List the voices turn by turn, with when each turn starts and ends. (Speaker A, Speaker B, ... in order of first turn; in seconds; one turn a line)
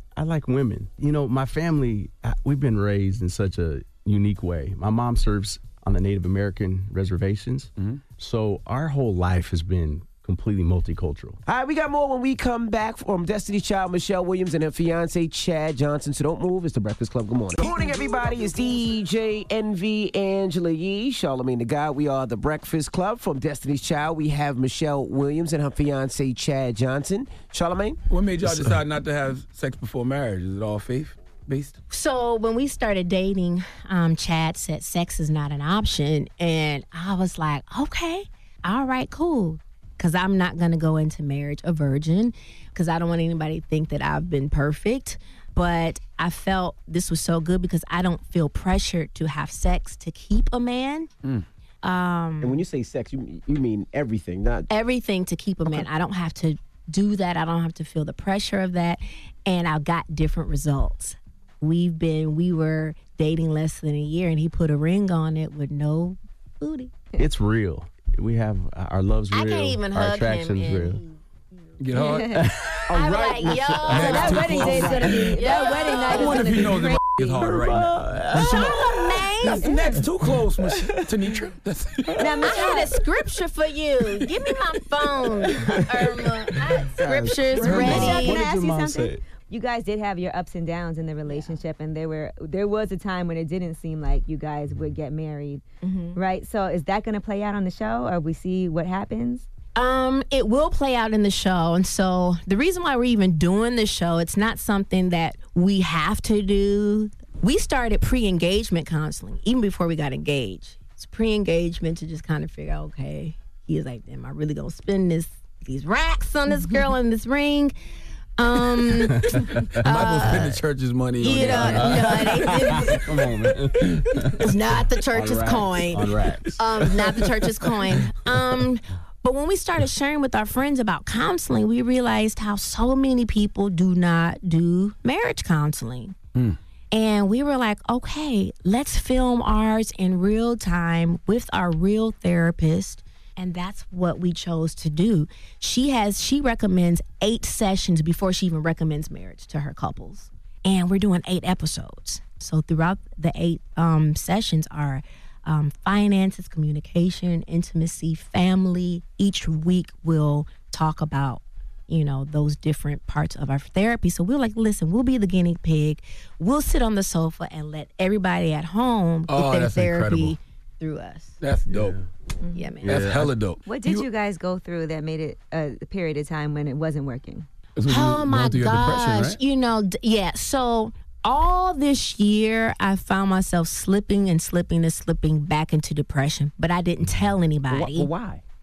Speaker A: 0.1-11.4
Speaker B: 7.8-8.0
Speaker C: 11.4-28.0
Speaker B: 28.1-31.8
Speaker A: 28.4-28.7
Speaker D: 31.9-51.1
Speaker D: 51.8-52.6
Speaker C: 52.4-54.7
Speaker D: 54.7-67.0
Speaker A: 67.2-71.0
Speaker D: 69.3-71.2
Speaker B: 71.8-72.4
Speaker E: 71.9-72.4
Speaker A: 72.3-74.2
Speaker C: 72.9-74.0
Speaker D: 72.9-76.6
Speaker B: 73.9-75.3
Speaker E: 74.0-77.0
Speaker B: 76.0-78.8
Speaker A: 77.2-79.2
Speaker D: 78.3-79.7
Speaker B: 79.3-82.1
Speaker E: 79.6-79.9
Speaker A: 80.7-81.0
Speaker A: 82.1-82.8
Speaker E: 82.2-82.9
Speaker D: 82.4-88.4
Speaker A: 85.2-86.7
Speaker C: 87.0-88.2
Speaker A: 87.5-89.2
Speaker E: 87.6-95.6
Speaker D: 95.8-96.2
Speaker E: 96.1-99.5
Speaker D: 99.8-117.7
Speaker D: 118.4-119.2
Speaker A: 119.0-120.1
Speaker B: 119.8-122.3
Speaker D: 119.8-120.5
Speaker D: 121.2-123.0
Speaker A: 121.4-124.5
Speaker D: 124.4-136.2
Speaker A: 125.1-128.6
Speaker D: 136.9-171.3
Speaker B: 169.3-170.3
Speaker B: 171.4-172.0
Speaker A: 171.7-172.0
Speaker E: 172.4-172.8
Speaker D: 172.5-173.0
Speaker A: 172.8-173.3
Speaker B: 172.8-174.1
Speaker E: 173.7-177.5
Speaker B: 177.8-179.4
Speaker D: 177.9-188.1
Speaker C: 187.7-188.4